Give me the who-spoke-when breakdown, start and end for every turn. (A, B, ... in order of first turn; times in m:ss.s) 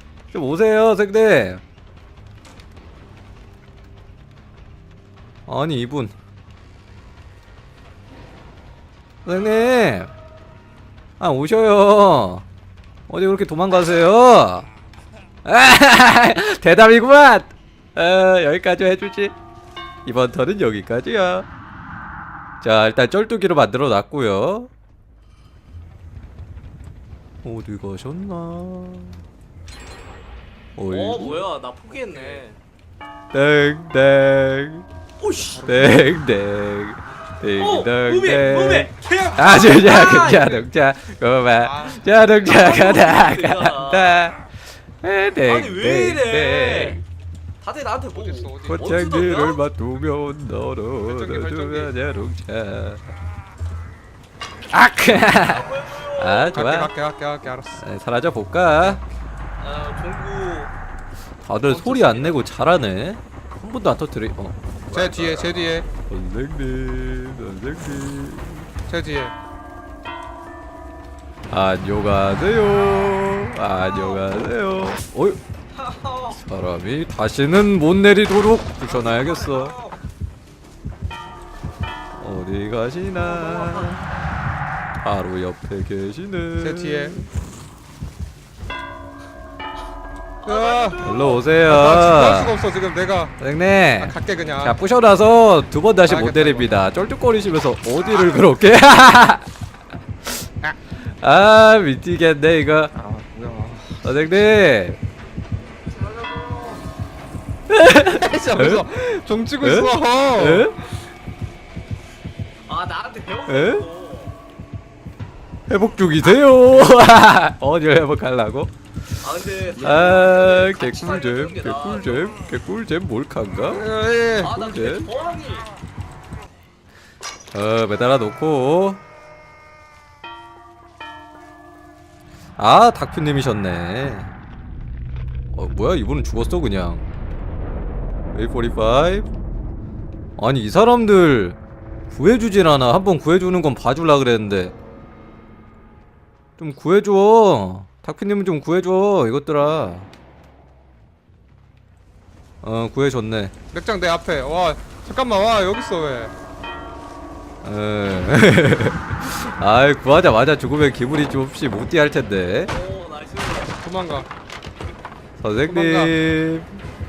0:00.3-0:01.6 A
0:05.5-0:06.1 A
0:09.2-0:10.1 A
0:11.2-0:12.5 A
0:13.1-0:14.7 A
0:15.4-0:19.3 A
0:20.0-0:21.5 A
0:22.6-0:24.7 A
0:27.4-0:29.2 A
0:30.8-0:31.5 A
0:30.9-0:32.6 B
0:33.3-0:34.8 A
0:35.2-0:35.8 B
0:35.6-0:47.0 A
0:35.7-0:36.0 C
0:37.5-0:40.6 B
0:41.6-0:42.2 C
0:42.4-0:44.3 B
0:45.4-0:47.0 B
0:47.6-0:49.6 B
0:48.1-0:49.0 C
0:48.6-0:53.1 A
0:51.0-0:51.9 C
0:54.7-0:56.9 A
0:55.3-0:56.6 B
0:56.5-0:57.8 C
0:57.7-0:59.0 A
0:59.6-1:00.7 B
1:01.4-1:08.7 A
1:01.6-1:02.4 B
1:04.9-1:05.9 C
1:08.9-1:09.3 C
1:11.5-1:15.4 A
1:13.7-1:14.3 B
1:15.7-1:16.4 B
1:16.3-1:19.8 A
1:18.8-1:20.0 B
1:22.1-1:24.1 A
1:23.2-1:24.0 B
1:25.0-1:27.3 A
1:26.6-1:27.2 C
1:30.4-1:31.6 B
1:30.4-1:33.4 C
1:31.0-1:32.6 A
1:33.4-1:39.5 A
1:34.0-1:34.8 C
1:36.0-1:36.7 C
1:40.9-1:42.9 A
1:42.9-1:44.0 C
1:44.0-1:45.0 A
1:45.9-1:46.8 B
1:47.7-1:50.9 A
1:48.0-1:50.7 C
1:52.6-1:54.3 B
1:53.5-1:53.9 A
1:55.7-2:03.9 A
1:59.2-2:02.3 B
2:03.7-2:04.5 C
2:04.4-2:05.7 B
2:04.4-2:05.1 A
2:07.5-2:09.0 A
2:12.6-2:14.4 A
2:15.5-2:17.0 A
2:18.3-2:19.3 A
2:20.4-2:21.6 A
2:22.1-2:24.7 A
2:26.6-2:30.1 A
2:32.6-2:33.5 A
2:33.7-2:36.3 C
2:37.6-2:42.8 A
2:42.6-2:43.8 B
2:43.8-2:44.3 C
2:45.4-2:46.8 A
2:45.6-2:46.1 C